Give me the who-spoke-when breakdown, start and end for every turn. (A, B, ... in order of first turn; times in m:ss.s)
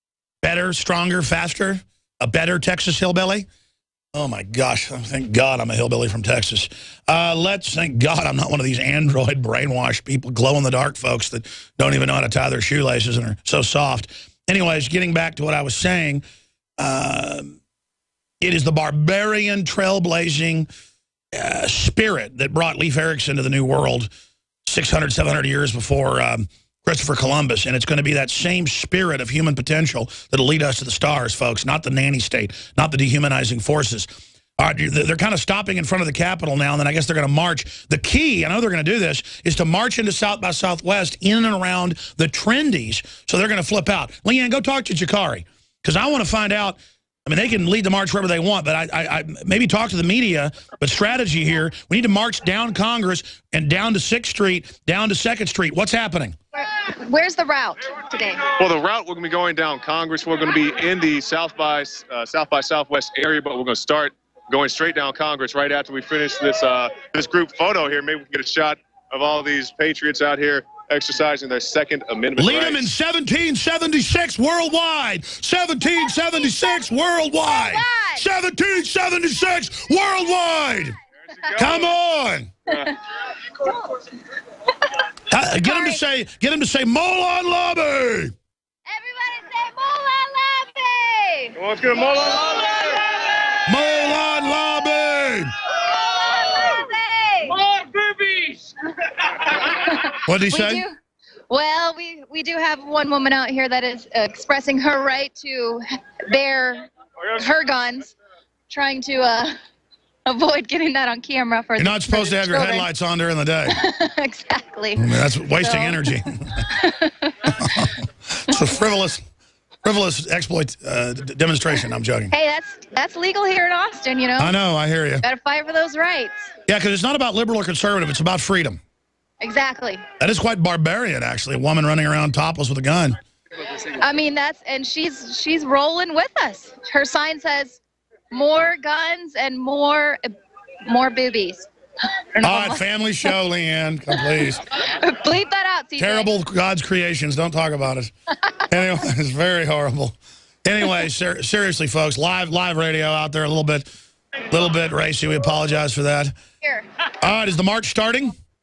0:00.4-0:03.5 A
0:04.1-0:16.2 A
0:16.8-0:17.6 A
0:18.4-0:20.7 A
0:21.3-0:24.1 A
0:24.7-0:34.1 A
0:34.6-0:56.4 A
0:56.6-0:58.6 B
0:58.6-1:12.8 C
1:12.4-1:21.0 A
1:16.4-1:16.6 B
1:17.5-1:18.2 B
1:21.4-1:21.9 C
1:21.6-1:22.6 A
1:25.3-1:28.3 A
1:25.6-1:26.0 B
1:28.9-1:32.9 B
1:31.6-1:32.1 C
1:33.6-1:35.5 A
1:36.0-1:37.6 B
1:39.7-1:41.0 B
1:40.2-1:40.9 A
1:41.5-1:48.1 B
1:48.7-1:49.5 B
1:50.3-1:52.9 B
1:51.8-1:53.8 A
1:53.7-1:56.1 B
1:55.0-1:56.7 A
1:56.7-1:57.5 B
1:57.5-1:59.2 A
1:59.8-2:02.3 A
2:02.3-2:04.6 B
2:04.4-2:05.2 A
2:05.2-2:06.5 B
2:06.7-2:08.8 A
2:09.4-2:10.0 B
2:10.2-2:13.2 A
2:13.9-2:17.8 B
2:18.3-2:20.3 B
2:20.9-2:21.7 B
2:22.4-2:23.3 B
2:22.4-2:24.6 A
2:24.9-2:26.3 B
2:26.0-2:28.1 A
2:28.7-2:33.9 A
2:34.5-2:36.3 A
2:37.2-2:38.3 A